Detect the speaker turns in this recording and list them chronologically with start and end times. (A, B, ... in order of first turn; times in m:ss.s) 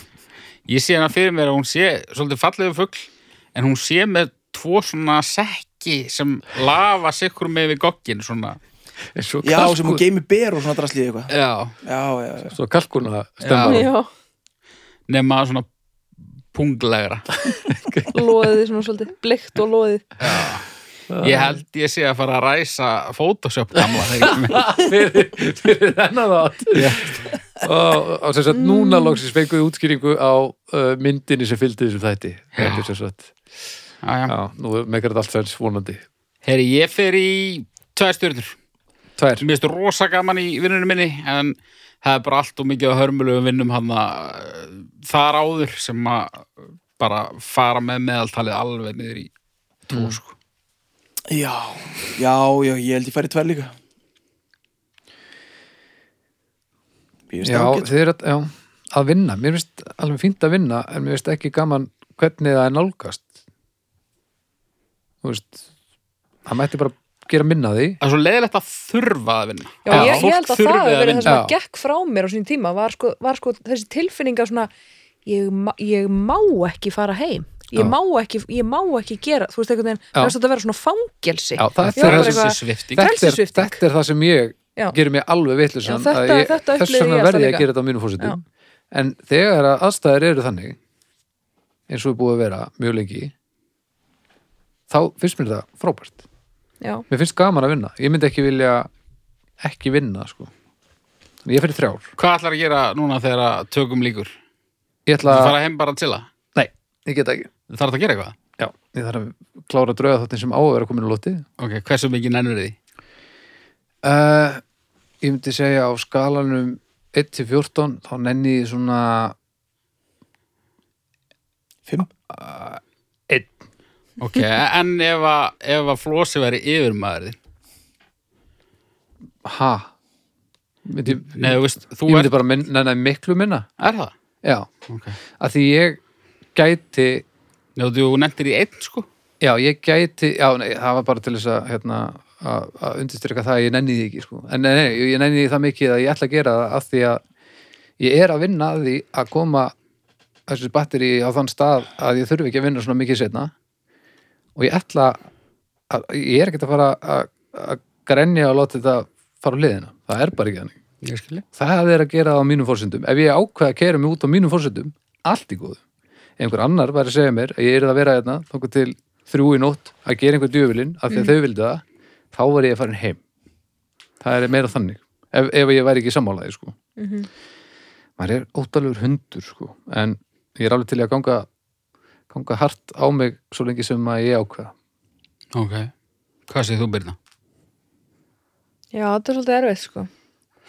0:00.7-0:08.6 A
0:09.2-0:10.0 B
0:09.4-0:11.3 C
0:11.3-0:11.8 A
0:11.8-0:12.6 C
0:12.5-0:13.9 B
0:13.4-0:13.9 A
0:13.6-0:14.1 D
0:15.1-0:15.7 A
0:16.5-0:17.3 A
0:17.5-0:18.2 B
0:18.1-0:20.0 D
0:20.2-0:20.7 A
0:21.1-0:21.6 B
0:21.2-0:24.7 A
0:23.8-0:33.3 B
0:26.7-0:27.2 A
0:28.5-0:29.2 D
0:32.6-0:32.9 A
0:34.0-0:34.3 A
0:34.3-0:36.0 B
0:36.4-0:38.6 A
0:39.2-0:39.5 B
0:39.4-0:49.3 A
0:49.9-0:50.3 A
0:49.9-0:50.2 B
0:51.3-0:53.7 C
0:57.3-0:57.9 C
0:57.4-1:03.3 B
1:05.2-1:05.7 B
1:06.5-1:08.0 B
1:08.0-1:11.4 A
1:09.8-1:14.7 D
1:09.9-1:10.3 B
1:11.3-1:11.5 B
1:15.3-1:23.8 D
1:21.6-1:30.8 B
1:21.8-1:23.1 A
1:25.8-1:28.4 D
1:31.9-1:33.3 B
1:34.9-1:36.2 B
1:37.1-1:38.9 B
1:39.6-1:40.5 B
1:41.4-1:42.1 B
1:42.2-1:44.3 A
1:45.1-1:45.6 B
1:45.2-1:46.3 A
1:46.6-1:47.5 B
1:47.7-1:48.4 A
1:48.6-1:51.4 B
1:51.6-1:52.8 A
1:54.0-1:54.6 B
1:55.2-1:59.4 B
2:02.3-2:03.5 B
2:04.2-2:07.4 A
2:09.4-2:09.9 B
2:10.8-2:13.7 B
2:11.2-2:12.3 A
2:13.8-2:14.1 A
2:14.4-2:14.7 B
2:14.9-2:15.2 A
2:15.4-2:16.0 B
2:16.6-2:17.3 B
2:17.8-2:19.1 A
2:19.4-2:27.2 B
2:28.0-2:29.7 B
2:30.5-2:33.5 B
2:34.6-2:35.2 B
2:35.9-2:40.8 B
2:41.0-2:41.4 A
2:41.6-2:45.8 B
2:46.4-2:53.2 B
2:54.2-2:56.8 B
2:57.0-2:57.3 D
2:58.2-3:01.5 B
3:02.3-3:04.7 B
3:05.5-3:05.9 A
3:06.5-3:07.2 A
3:08.9-3:10.1 D